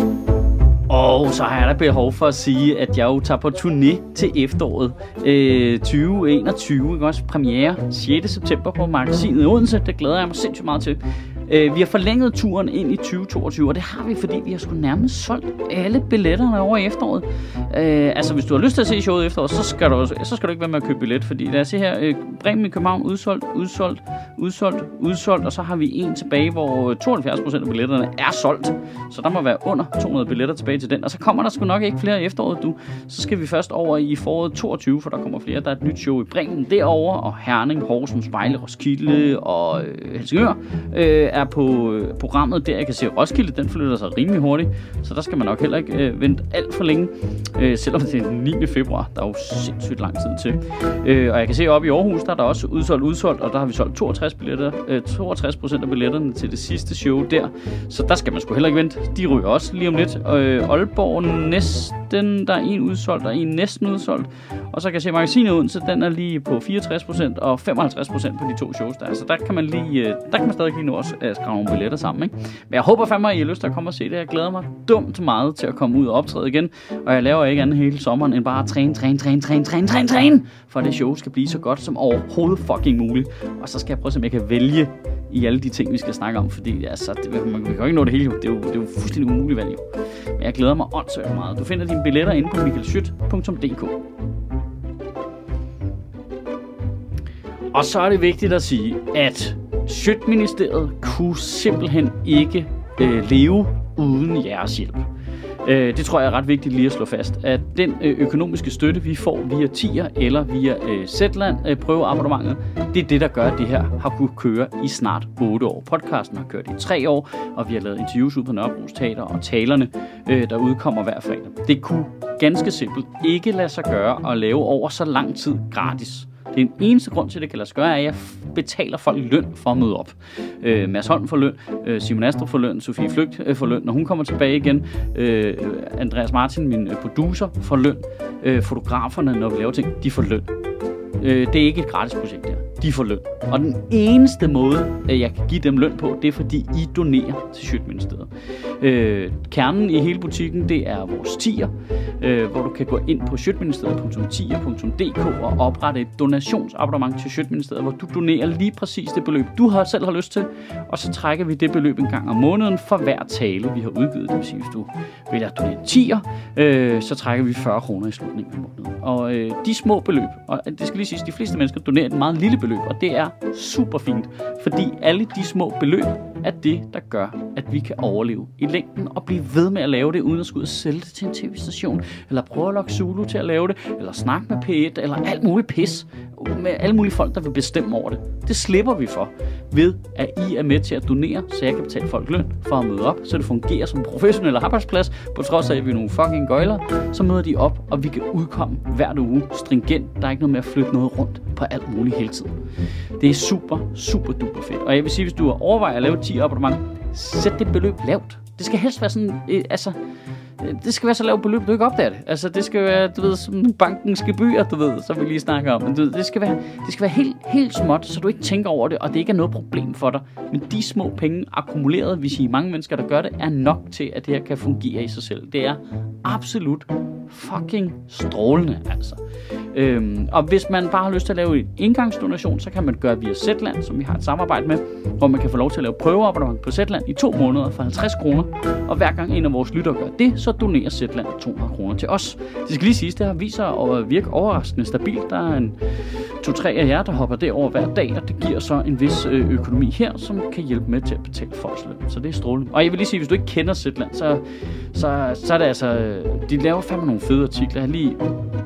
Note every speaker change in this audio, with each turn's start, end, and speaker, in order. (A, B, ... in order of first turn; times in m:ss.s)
0:00.9-1:29.8 A
1:30.3-1:34.0 A
1:37.7-1:45.1 A
1:45.6-2:20.5 A
2:21.2-3:22.6 A
3:23.2-3:30.0 A
3:30.6-3:49.2 A
3:49.7-4:18.2 A